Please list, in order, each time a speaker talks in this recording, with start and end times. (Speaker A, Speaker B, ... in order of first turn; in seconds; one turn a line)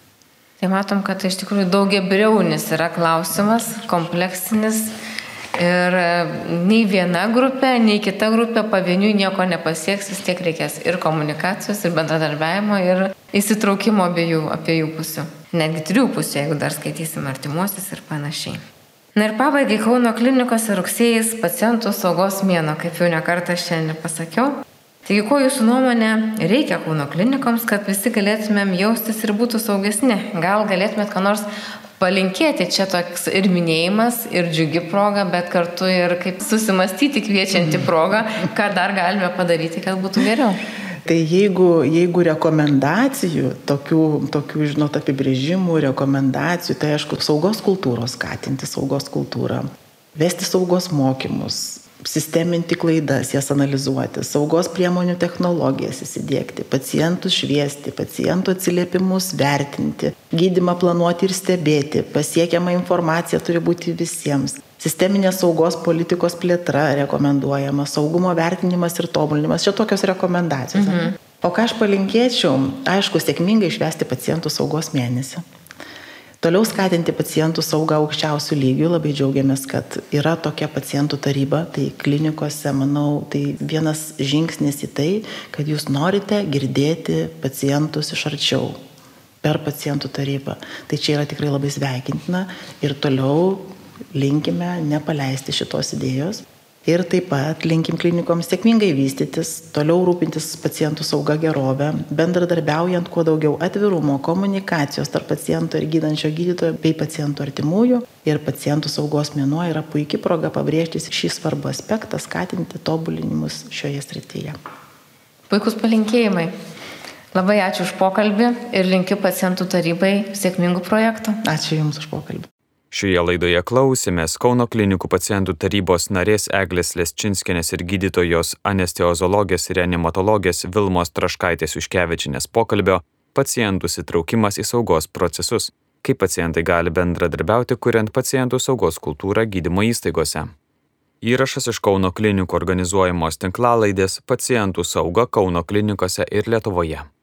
Speaker A: 0.6-4.9
Speaker A: 5.5-18.6
Speaker A: 19.1-31.5
Speaker A: 32.0-40.6
Speaker B: 37.6-37.9
Speaker B: 41.0-75.4
Speaker A: 70.7-71.2
Speaker B: 76.4-88.8
Speaker B: 89.4-114.6
Speaker A: 115.5-116.5
Speaker A: 117.3-121.4
Speaker B: 121.4-122.5
Speaker C: 122.9-140.5
Speaker C: 141.2-147.1